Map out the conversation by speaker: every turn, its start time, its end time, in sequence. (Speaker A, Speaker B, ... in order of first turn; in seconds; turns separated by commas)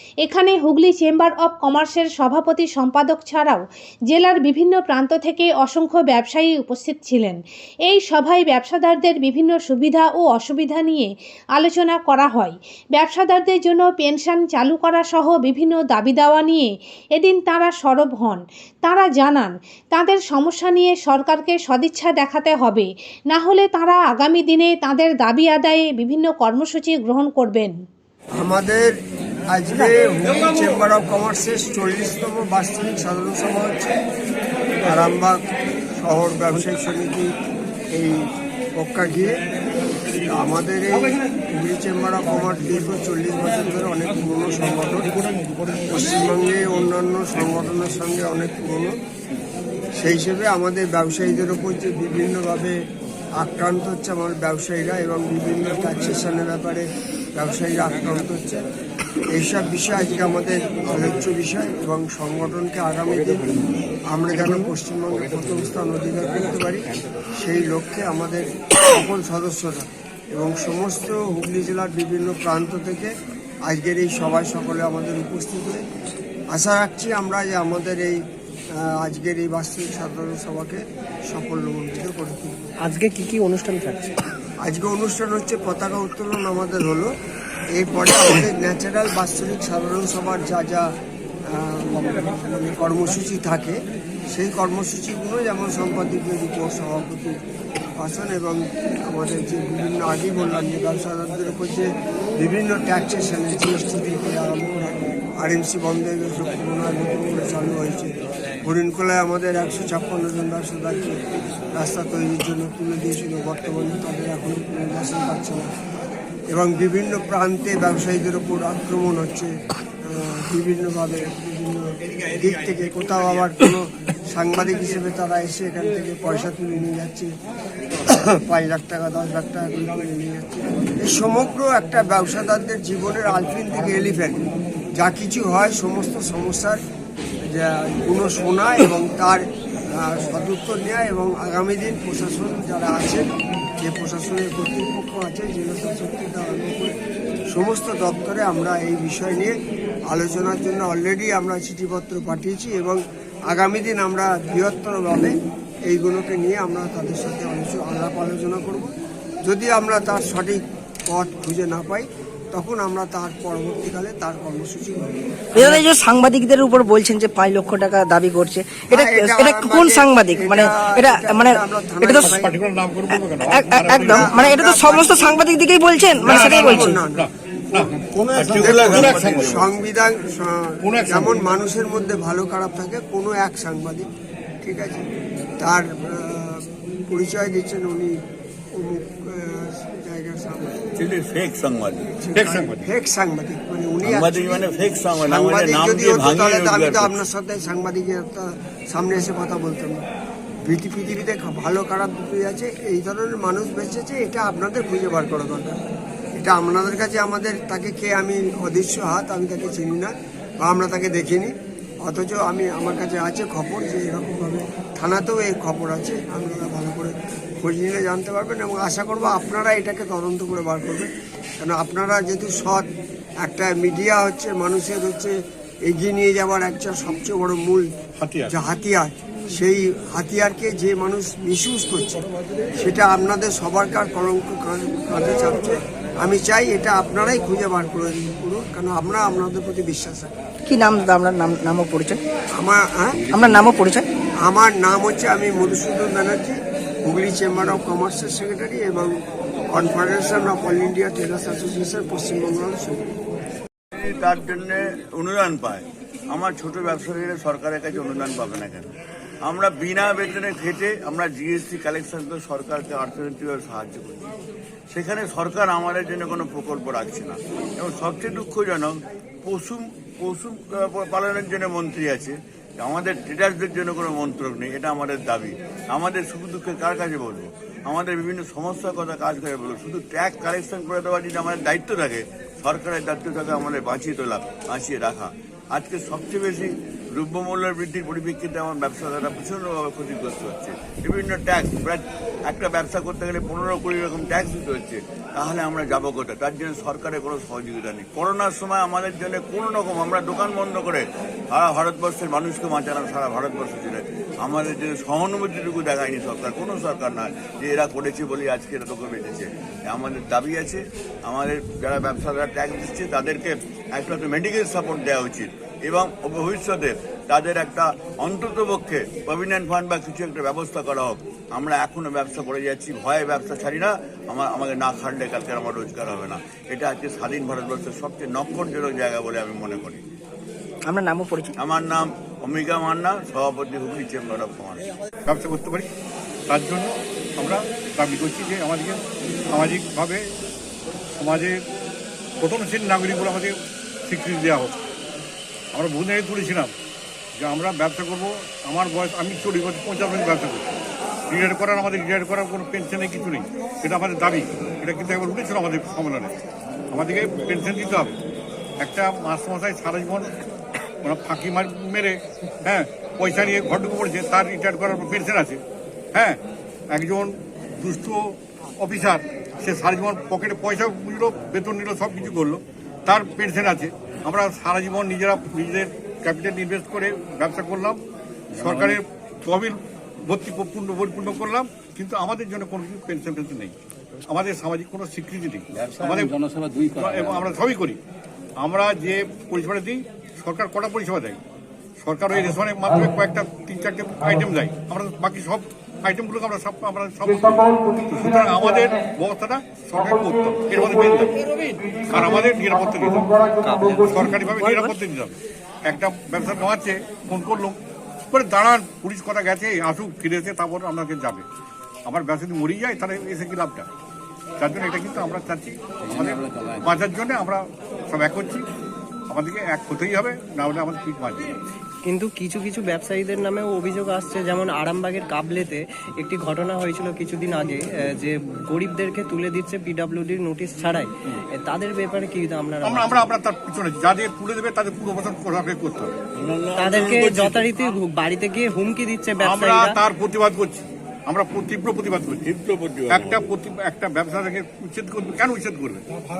Speaker A: 0.2-27.7, Speaker B: 28.4-28.9, Speaker B: 29.5-33.9, Speaker B: 34.8-35.4, Speaker B: 36.0-37.3, Speaker B: 37.9-38.2, Speaker B: 38.8-39.4, Speaker B: 40.2-45.1, Speaker B: 45.9-48.9, Speaker B: 50.0-52.8, Speaker B: 53.4-58.6, Speaker B: 59.3-66.8, Speaker B: 67.4-73.1, Speaker B: 73.7-75.8, Speaker B: 76.5-78.2, Speaker B: 78.8-82.5, Speaker C: 82.8-84.2, Speaker B: 84.6-87.1, Speaker B: 87.7-90.9, Speaker B: 91.5-93.8, Speaker B: 94.3-97.4, Speaker B: 98.0-111.2, Speaker B: 111.7-115.7, Speaker B: 116.5-119.5, Speaker B: 120.0-127.3, Speaker B: 128.1-134.4, Speaker B: 135.0-136.8, Speaker B: 137.4-139.4, Speaker B: 140.0-143.2, Speaker B: 143.8-146.9, Speaker B: 147.5-149.5, Speaker B: 150.1-155.3, Speaker B: 155.9-158.9, Speaker B: 159.4-165.8, Speaker D: 165.5-172.3, Speaker B: 168.9-172.5, Speaker E: 172.1-174.4, Speaker D: 173.4-176.9, Speaker B: 173.9-175.3, Speaker B: 176.2-177.9, Speaker E: 176.2-179.6, Speaker F: 178.2-179.8, Speaker B: 178.8-184.1, Speaker E: 180.8-181.3, Speaker B: 184.6-185.0, Speaker B: 185.6-188.2, Speaker B: 188.7-190.7, Speaker F: 190.9-192.1, Speaker B: 192.2-200.0, Speaker E: 192.3-192.9, Speaker F: 194.0-197.2, Speaker B: 200.7-205.7, Speaker B: 206.4-211.5, Speaker B: 212.0-222.9, Speaker B: 223.4-225.3, Speaker B: 225.8-227.9, Speaker E: 228.2-228.5, Speaker B: 228.5-232.2, Speaker B: 232.8-240.3, Speaker D: 240.7-242.2, Speaker B: 242.6-243.2, Speaker D: 243.3-244.1, Speaker B: 244.4-249.1, Speaker B: 249.7-253.0, Speaker F: 254.0-258.9, Speaker F: 259.4-264.3, Speaker F: 264.9-330.0, Speaker D: 330.9-331.5, Speaker F: 331.6-334.8, Speaker E: 335.3-335.9, Speaker E: 336.5-339.0, Speaker E: 339.5-340.2, Speaker E: 341.1-341.6, Speaker E: 342.4-343.5, Speaker E: 344.1-344.8, Speaker E: 345.7-346.7, Speaker E: 347.4-350.8, Speaker E: 351.3-356.3, Speaker E: 356.9-358.1, Speaker E: 358.8-360.3, Speaker E: 361.0-362.1, Speaker E: 362.6-365.6, Speaker E: 366.9-378.0, Speaker G: 378.5-379.0, Speaker E: 378.5-383.7, Speaker E: 384.3-386.3, Speaker G: 385.7-387.5, Speaker E: 386.9-388.0, Speaker E: 388.6-391.4, Speaker E: 392.0-401.3, Speaker E: 402.0-403.3, Speaker C: 403.6-404.2, Speaker E: 404.1-407.8, Speaker D: 404.2-404.9, Speaker E: 408.3-411.4, Speaker E: 412.1-413.9, Speaker E: 414.6-418.6, Speaker G: 416.0-416.8, Speaker E: 419.3-421.5, Speaker C: 422.0-433.2, Speaker E: 432.8-436.1, Speaker F: 436.4-437.9, Speaker C: 436.8-440.0, Speaker E: 439.4-442.4, Speaker F: 442.4-443.4, Speaker E: 443.1-446.0